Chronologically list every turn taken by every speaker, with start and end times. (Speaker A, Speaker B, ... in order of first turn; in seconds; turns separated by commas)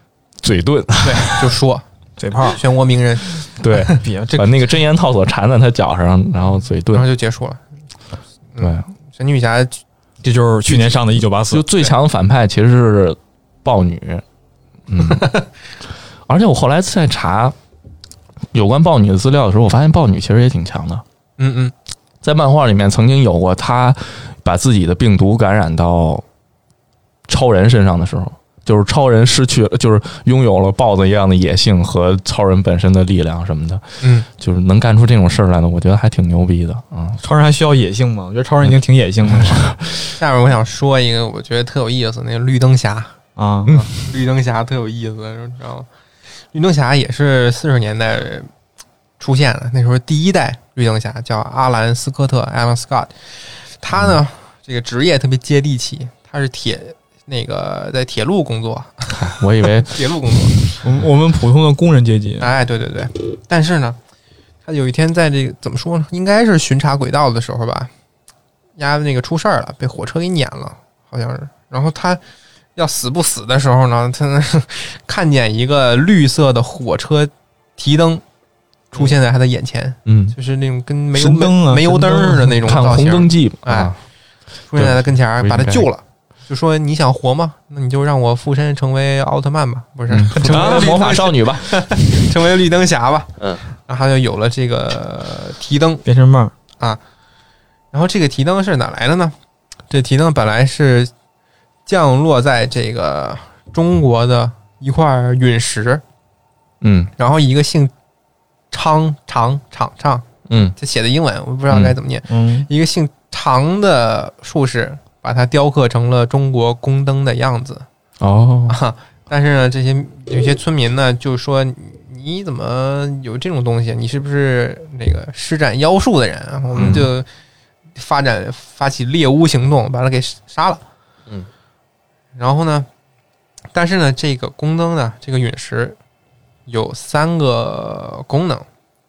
Speaker A: 0.4-1.5, Speaker B: 1.0-1.9, Speaker C: 2.2-2.6, Speaker B: 2.4-4.0, Speaker A: 3.6-7.1, Speaker C: 3.9-4.8, Speaker B: 6.9-7.6, Speaker B: 8.5-9.8, Speaker A: 8.6-8.9, Speaker C: 10.2-11.7, Speaker B: 10.7-11.0, Speaker A: 11.5-14.2, Speaker A: 14.9-15.3, Speaker B: 15.1-15.4, Speaker A: 16.3-17.6, Speaker A: 18.5-21.0, Speaker B: 21.4-21.7, Speaker A: 22.2-26.2, Speaker A: 27.3-37.2, Speaker B: 34.0-34.3, Speaker C: 37.2-39.7, Speaker A: 39.3-40.1, Speaker B: 40.2-45.9, Speaker C: 43.4-43.7, Speaker B: 46.5-48.5, Speaker B: 49.2-60.8, Speaker A: 59.1-60.6, Speaker C: 60.8-62.5, Speaker B: 62.4-64.0, Speaker B: 64.7-67.9, Speaker B: 68.8-72.2, Speaker B: 72.8-78.2, Speaker B: 78.9-83.9, Speaker A: 80.1-80.3, Speaker C: 81.2-82.6, Speaker A: 82.7-84.0, Speaker B: 84.7-96.0, Speaker A: 84.7-85.9, Speaker A: 90.1-92.2, Speaker C: 90.4-91.1, Speaker C: 96.0-96.5, Speaker B: 97.9-99.3, Speaker B: 99.9-101.1, Speaker B: 101.9-106.0, Speaker A: 106.8-107.1, Speaker B: 107.2-107.9, Speaker B: 108.7-110.3, Speaker A: 110.5-110.8, Speaker B: 110.8-117.9, Speaker A: 111.7-112.0, Speaker C: 112.3-112.7, Speaker A: 118.2-118.8, Speaker B: 118.7-127.3, Speaker A: 126.8-127.1, Speaker B: 128.0-130.8, Speaker B: 132.4-132.9, Speaker B: 133.7-136.0, Speaker B: 136.7-138.7